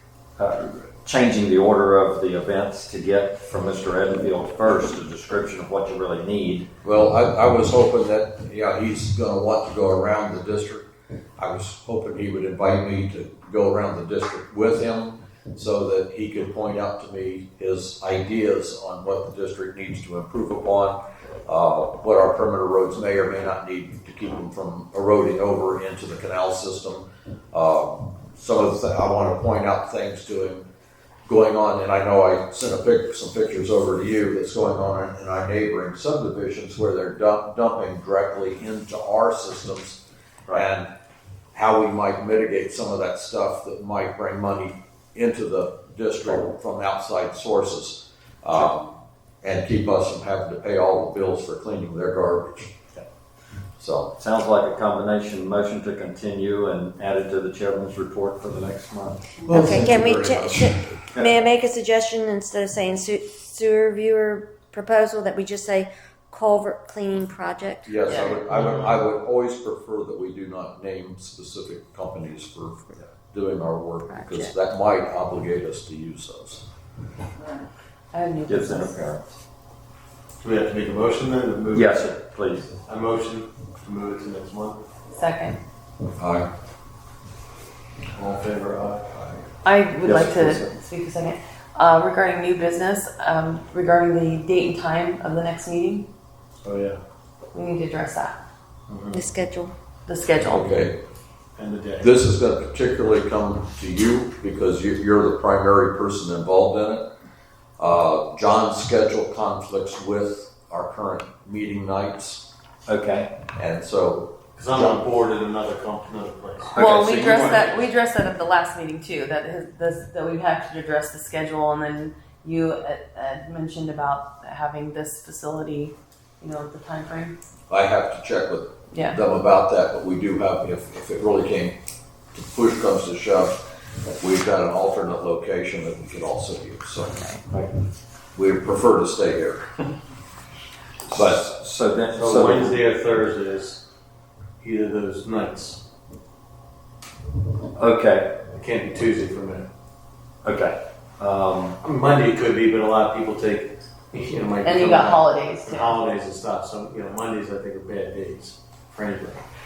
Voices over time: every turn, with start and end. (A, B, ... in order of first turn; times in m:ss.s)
0:00.4-0:06.7 A
0:06.8-0:10.8 B
0:11.4-0:30.7 B
0:31.2-0:40.0 B
0:40.5-0:40.9 B
0:41.5-0:52.7 B
0:53.8-0:54.1 B
0:54.1-0:59.3 A
0:59.5-1:00.7 B
0:59.5-1:07.9 C
1:07.8-1:16.6 B
1:08.0-1:08.4 D
1:08.5-1:09.0 E
1:14.2-1:14.5 D
1:18.1-1:19.1 D
1:18.5-1:19.2 A
1:20.4-1:22.1 E
1:21.7-1:22.7 A
1:22.8-1:24.8 E
1:25.1-1:25.6 D
1:26.2-1:26.5 B
1:28.1-1:29.2 E
1:29.6-1:36.1 D
1:30.0-1:30.7 A
1:36.6-1:37.0 E
1:37.5-1:38.4 D
1:38.9-1:39.2 E
1:39.1-1:39.7 C
1:40.1-1:40.9 D
1:40.4-1:40.9 B
1:41.6-1:42.1 E
1:42.0-1:47.1 B
1:47.8-1:52.4 B
1:52.9-1:53.3 A
1:53.5-1:55.0 B
1:54.6-1:57.8 E
1:56.8-1:57.5 B
1:56.8-2:07.3 D
2:07.7-2:11.7 B
2:08.9-2:09.2 D
2:12.3-2:13.5 B
2:14.1-2:17.2 B
2:17.1-2:17.4 D
2:18.3-2:19.7 B
2:21.1-2:22.8 A
2:21.1-2:21.5 B
2:22.1-2:23.8 E
2:24.6-2:25.8 E
2:27.8-2:28.4 A
2:28.5-2:29.7 E
2:30.4-2:31.8 A
2:31.8-2:39.4 E
2:34.6-2:36.0 D